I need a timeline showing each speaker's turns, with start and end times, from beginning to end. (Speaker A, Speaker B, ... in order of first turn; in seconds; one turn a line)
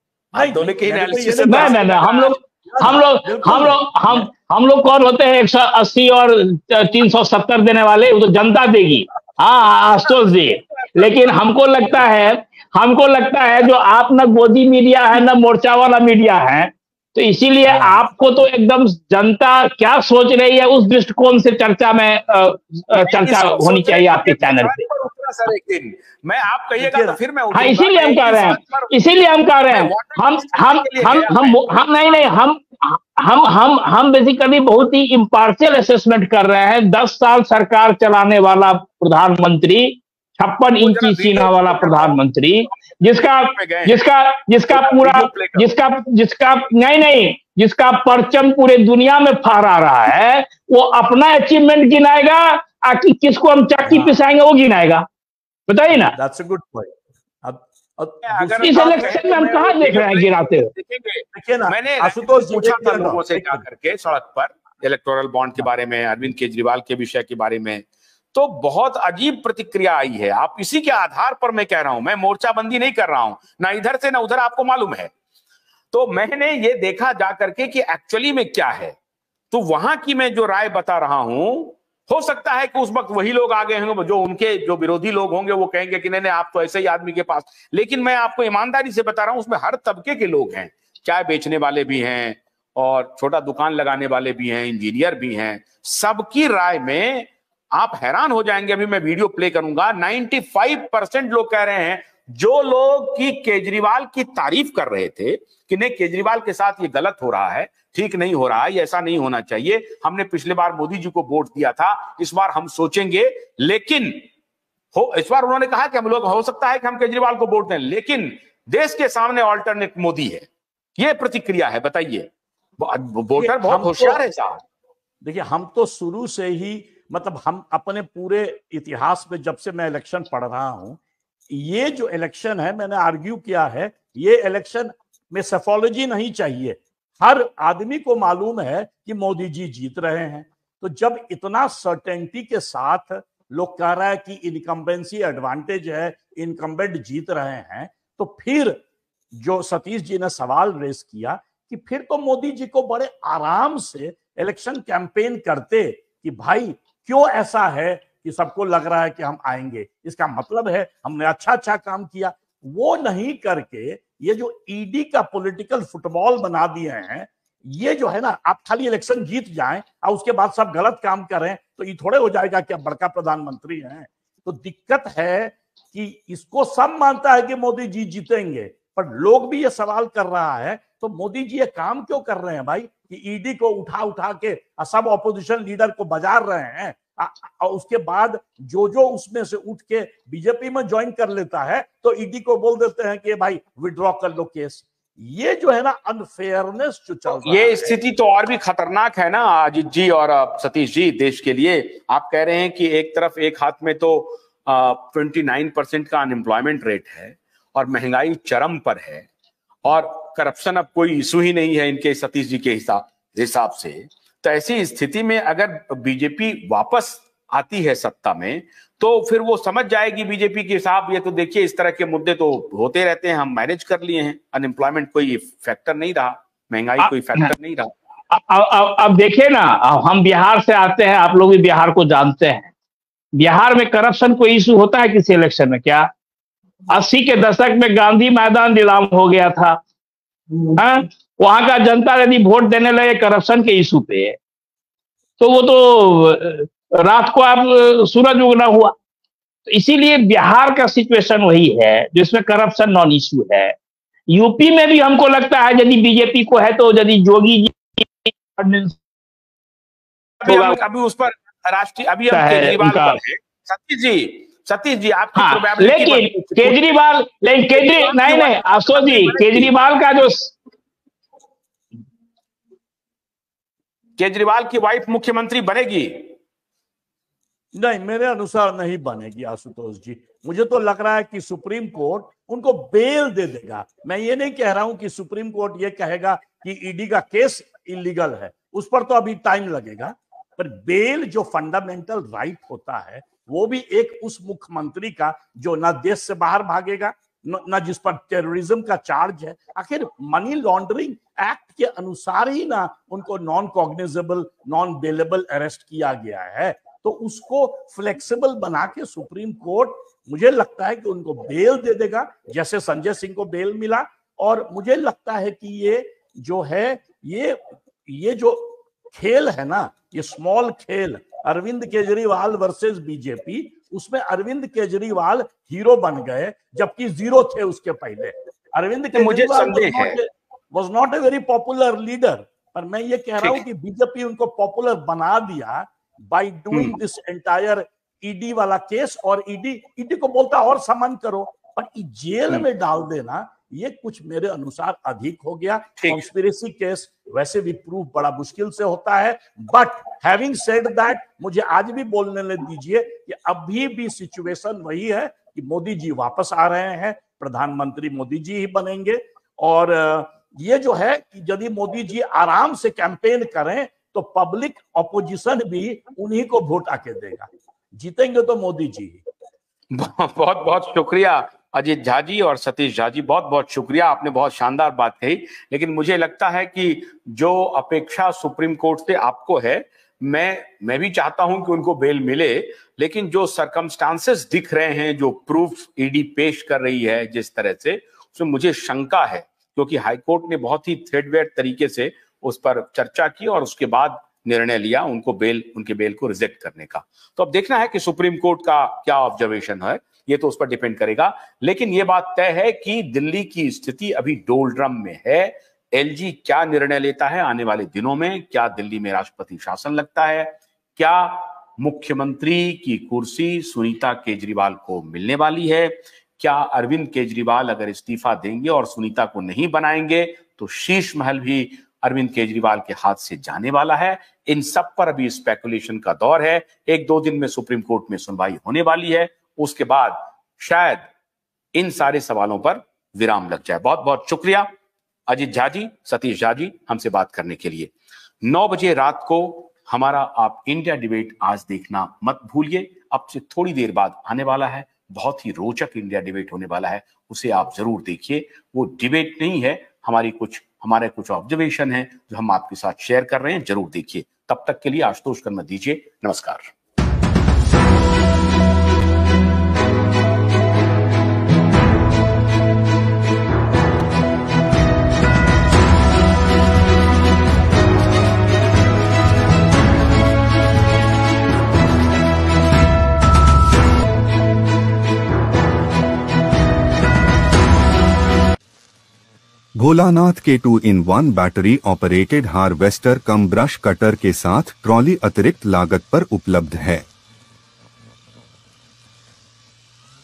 Speaker A: 0.3-1.8
Speaker B: 0.3-2.4
Speaker C: 1.4-24.8
Speaker A: 2.6-4.3
Speaker A: 17.7-18.1
Speaker B: 22.9-29.0
Speaker A: 26.8-27.2
Speaker C: 27.5-55.0
Speaker B: 29.7-31.9
Speaker B: 40.8-42.2
Speaker B: 43.2-44.0
Speaker B: 44.7-45.7
Speaker A: 53.9-54.2
Speaker C: 55.7-56.1
Speaker A: 56.0-56.9
Speaker A: 57.4-59.2
Speaker B: 58.2-75.1
Speaker C: 58.6-60.7
Speaker A: 61.3-63.6
Speaker B: 75.9-79.0
Speaker B: 79.5-114.3
Speaker B: 114.9-124.6
Speaker A: 123.4-124.2
Speaker A: 125.2-131.0
Speaker A: 131.5-148.8
Speaker A: 149.4-198.0
Speaker B: 197.3-209.3
Speaker B: 209.8-227.9
Speaker C: 227.0-227.5
Speaker C: 228.3-232.7
Speaker C: 233.3-236.1
Speaker C: 236.9-239.8
Speaker C: 240.7-244.4
Speaker C: 245.4-248.9
Speaker C: 249.7-253.7
Speaker C: 254.3-259.0
Speaker B: 260.4-266.8
Speaker C: 260.4-260.8
Speaker C: 262.3-263.2
Speaker C: 265.4-270.5
Speaker B: 267.7-269.7
Speaker B: 274.2-276.4
Speaker A: 277.7-369.2
Speaker B: 329.1-330.2
Speaker B: 336.7-337.0
Speaker B: 346.0-346.2
Speaker B: 369.9-431.1
Speaker B: 431.7-434.7
Speaker B: 435.3-456.7
Speaker D: 479.8-487.1